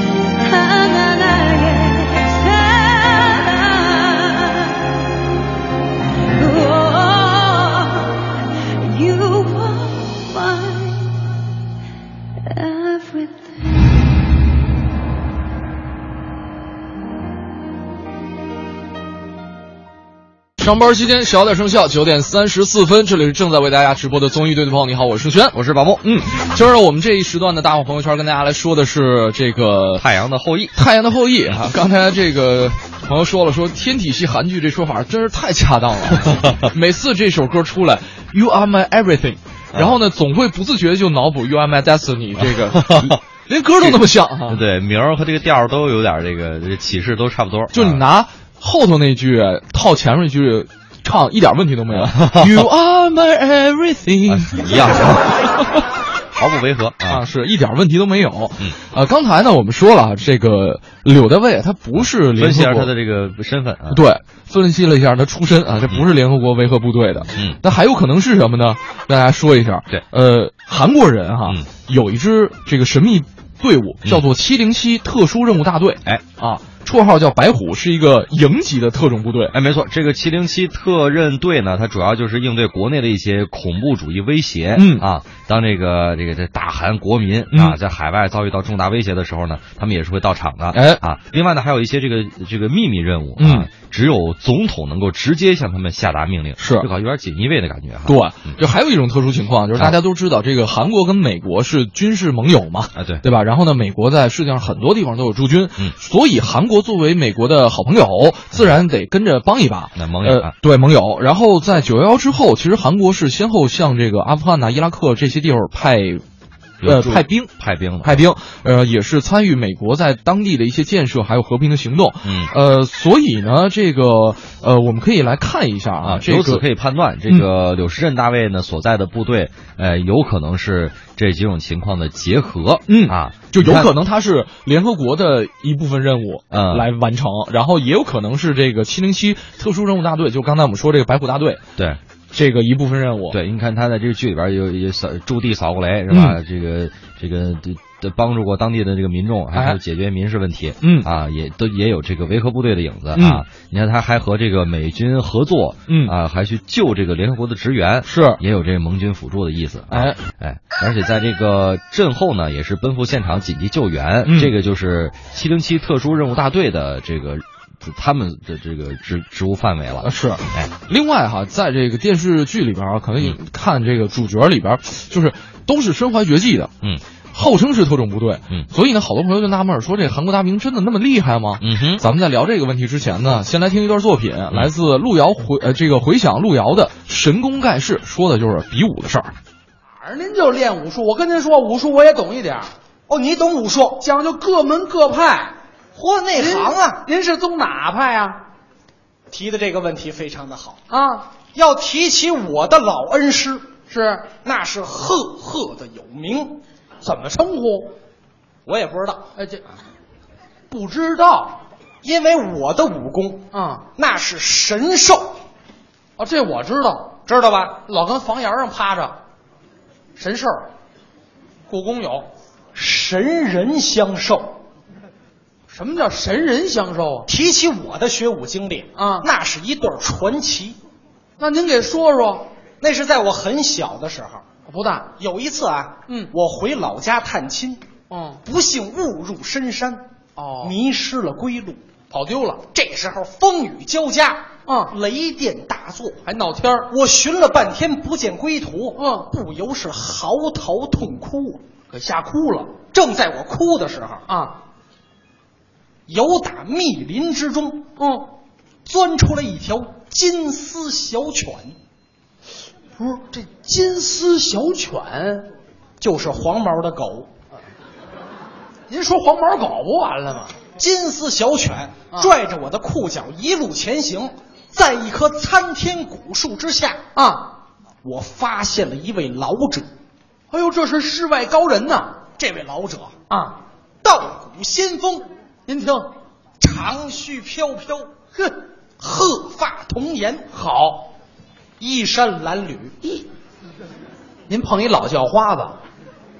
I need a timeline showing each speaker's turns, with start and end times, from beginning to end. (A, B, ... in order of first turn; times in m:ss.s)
0:00.4-0:05.0 A
0:06.3-0:11.2 A
0:12.4-0:13.9 A
0:20.6-0:30.0 B
0:25.5-0:26.0 C
0:30.0-0:30.8 C
0:30.7-0:44.6 B
0:42.5-0:43.2 C
0:43.8-0:48.0 C
0:47.7-0:55.3 B
0:51.9-0:52.6 C
0:54.2-0:55.5 C
0:56.3-0:57.2 C
0:57.1-1:02.9 B
1:02.0-1:04.0 C
1:03.9-1:19.5 B
1:19.5-1:38.6 C
1:24.7-1:25.1 B
1:27.5-1:27.8 B
1:30.7-1:31.0 B
1:33.4-1:33.7 B
1:36.6-1:36.9 B
1:38.0-1:56.2 B
1:42.9-1:43.2 C
1:49.9-1:50.5 C
1:56.8-1:58.2 C
1:56.8-2:06.7 B
2:02.2-2:02.5 C
2:06.0-2:13.9 C
2:12.9-2:21.6 B
2:16.5-2:16.9 C
2:22.3-2:23.4 B
2:23.3-2:50.7 C
2:26.1-2:26.4 B
2:29.5-2:29.8 B
2:30.8-2:31.1 B
2:33.1-2:33.4 B
2:35.9-2:36.1 B
2:38.0-2:38.4 B
2:39.9-2:40.2 B
2:44.2-2:44.5 B
2:50.0-2:56.7 B
2:57.3-3:09.3 B
3:01.6-3:02.0 C
3:10.0-3:12.7 D
3:13.1-3:14.0 E
3:14.0-3:15.6 D
3:15.9-3:17.1 E
3:16.3-3:18.4 D
3:19.3-3:20.8 E
3:20.9-3:21.3 D
3:21.5-3:23.7 E
3:23.9-3:24.3 D
3:24.4-3:26.6 E
3:27.0-3:27.9 D
3:28.6-3:29.2 E
3:29.4-3:29.6 D
3:30.7-3:31.6 D
3:32.0-3:35.4 E
3:33.5-3:33.8 D
3:36.2-3:37.2 D
3:37.3-3:37.8 E
3:37.7-3:39.2 D
3:40.2-3:40.7 D
3:41.7-3:42.3 D
3:42.7-3:44.6 E
3:45.7-3:47.3 D
3:47.3-3:50.8 E
3:49.0-3:49.3 D
3:51.4-3:52.5 D
3:52.8-3:54.4 E
3:54.7-3:55.1 D
3:55.2-3:57.8 E
3:58.1-3:58.4 D
3:58.4-4:00.1 E
4:00.4-4:00.8 D
4:00.6-4:01.8 E
4:02.1-4:02.7 D
4:02.7-4:06.2 E
4:04.6-4:04.9 D
4:06.2-4:06.9 D
4:06.9-4:11.6 E
4:09.0-4:09.3 D
4:11.9-4:12.8 D
4:12.9-4:14.2 E
4:14.3-4:14.6 D
4:16.1-4:17.9 E
4:18.0-4:18.3 D
4:18.8-4:21.8 E
4:23.0-4:25.5 D
4:26.0-4:27.3 E
4:28.9-4:30.6 D
4:30.8-4:37.0 E
4:37.1-4:37.5 D
4:38.0-4:39.9 E
4:40.5-4:42.2 D
4:42.4-4:43.1 E
4:43.3-4:43.6 D
4:44.0-4:45.3 E
4:45.7-4:46.1 D
4:46.6-4:48.2 E
4:49.0-4:50.5 E
4:50.5-4:51.1 D
4:51.8-4:52.9 E
4:54.5-4:55.8 D